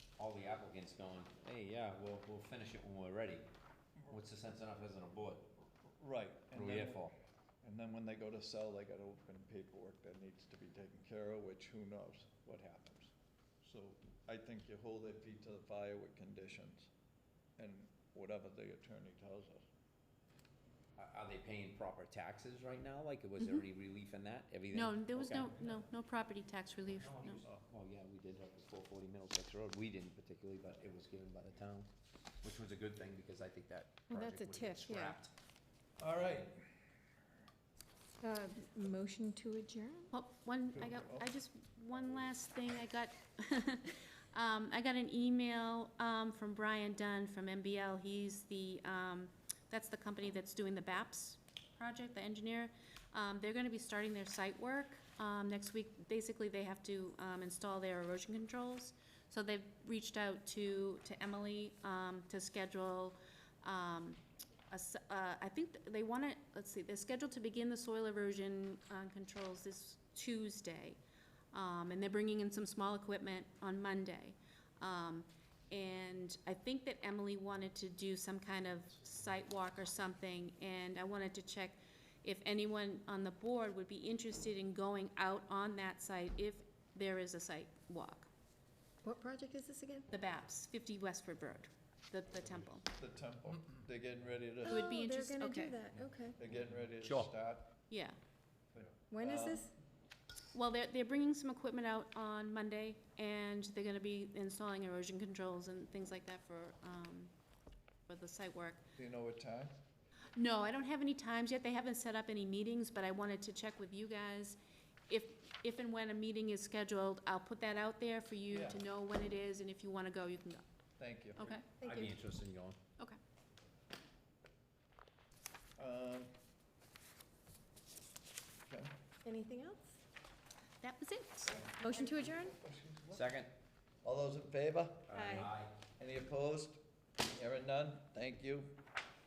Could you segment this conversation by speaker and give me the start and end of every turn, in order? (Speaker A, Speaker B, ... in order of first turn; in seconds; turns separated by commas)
Speaker A: 0.2-3.5, Speaker A: 4.0-5.5, Speaker B: 6.0-7.1, Speaker A: 6.5-7.1, Speaker B: 7.6-16.9, Speaker B: 17.6-19.6, Speaker A: 20.9-25.7, Speaker C: 24.7-27.4, Speaker A: 27.0-31.9, Speaker A: 32.4-35.3, Speaker D: 34.1-35.2, Speaker B: 36.0-36.6, Speaker D: 38.2-40.1, Speaker C: 40.1-71.0, Speaker B: 40.7-41.3, Speaker C: 71.5-88.3, Speaker D: 89.0-90.1, Speaker C: 90.1-92.9, Speaker B: 92.9-94.8, Speaker C: 94.6-95.8, Speaker D: 94.6-96.4, Speaker B: 96.4-97.7, Speaker A: 97.0-97.3, Speaker C: 97.9-98.2, Speaker B: 98.7-99.7, Speaker D: 99.1-99.7, Speaker C: 100.5-107.3, Speaker C: 108.1-108.8, Speaker B: 109.0-109.8, Speaker C: 110.3-114.6, Speaker C: 115.1-120.6, Speaker B: 118.5-118.8, Speaker B: 121.0-121.5, Speaker C: 121.3-121.7, Speaker D: 121.8-122.1, Speaker A: 121.8-122.8, Speaker B: 125.8-126.3, Speaker D: 129.2-129.9, Speaker C: 130.8-131.6, Speaker B: 131.4-133.3, Speaker D: 131.8-132.5, Speaker A: 133.1-133.5, Speaker B: 134.0-135.2, Speaker A: 135.1-135.8, Speaker D: 135.1-135.5, Speaker B: 135.9-138.8